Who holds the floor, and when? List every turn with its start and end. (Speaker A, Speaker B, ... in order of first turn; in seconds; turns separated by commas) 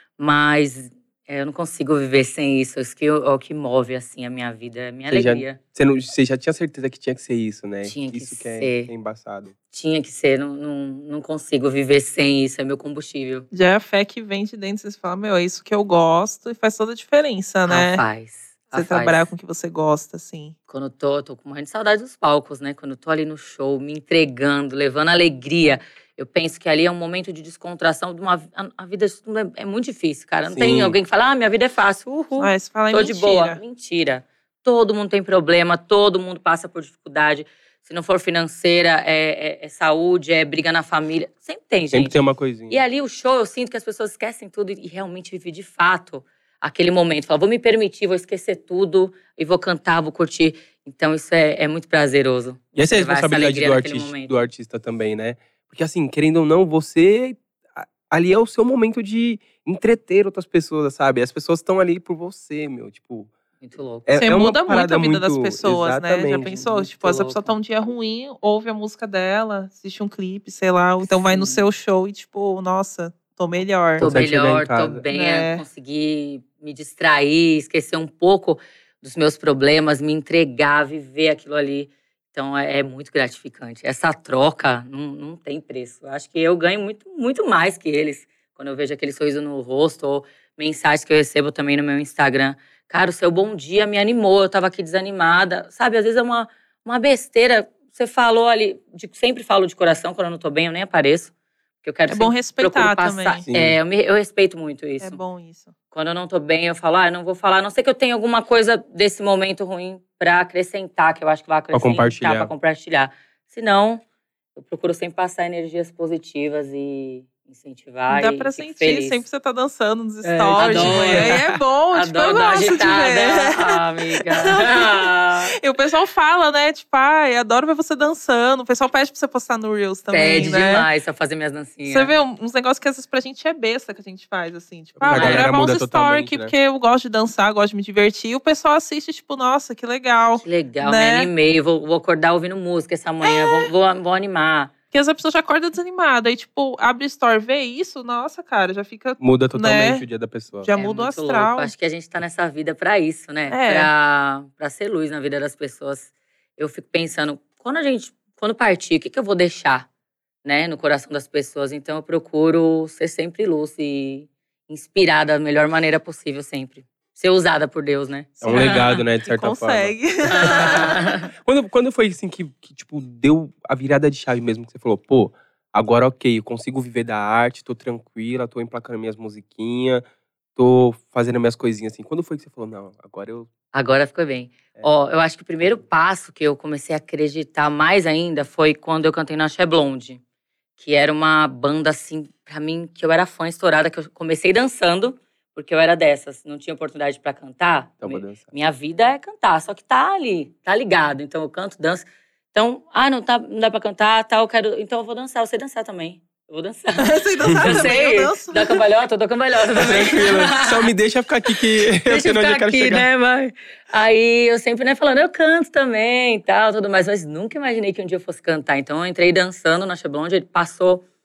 Speaker A: 0.2-5.6, Speaker B: 5.1-9.5, Speaker A: 7.8-8.9, Speaker A: 9.7-13.4, Speaker C: 13.5-18.0, Speaker A: 17.7-19.2, Speaker C: 18.7-20.5, Speaker A: 20.7-42.2, Speaker B: 30.5-30.9, Speaker C: 32.4-33.6, Speaker B: 41.9-42.8, Speaker A: 42.7-54.4, Speaker B: 52.8-63.3, Speaker A: 63.6-64.2, Speaker B: 64.0-66.9, Speaker C: 64.2-74.0, Speaker A: 66.7-67.5, Speaker A: 71.0-71.6, Speaker B: 74.0-75.0, Speaker A: 74.0-105.2, Speaker C: 75.1-75.6, Speaker C: 102.1-103.4, Speaker B: 103.5-103.8, Speaker C: 105.0-105.7, Speaker A: 105.9-114.0, Speaker B: 111.7-112.5, Speaker A: 114.5-119.2, Speaker C: 118.1-130.9, Speaker A: 120.2-125.5, Speaker B: 120.5-121.4, Speaker A: 130.1-132.1, Speaker C: 131.9-141.3, Speaker B: 135.0-136.5, Speaker A: 135.1-135.5, Speaker A: 140.4-144.7, Speaker C: 143.2-143.7, Speaker C: 144.9-150.0, Speaker B: 149.2-150.7, Speaker C: 150.6-151.7, Speaker A: 150.8-159.9, Speaker C: 153.5-153.9, Speaker A: 160.4-169.0, Speaker B: 168.4-180.0, Speaker C: 168.5-171.1, Speaker A: 170.2-171.3, Speaker B: 180.6-183.5, Speaker A: 183.7-190.2, Speaker A: 190.8-210.9, Speaker B: 198.0-198.4, Speaker C: 206.9-208.8, Speaker B: 207.4-207.9, Speaker B: 209.8-213.1, Speaker A: 211.9-221.0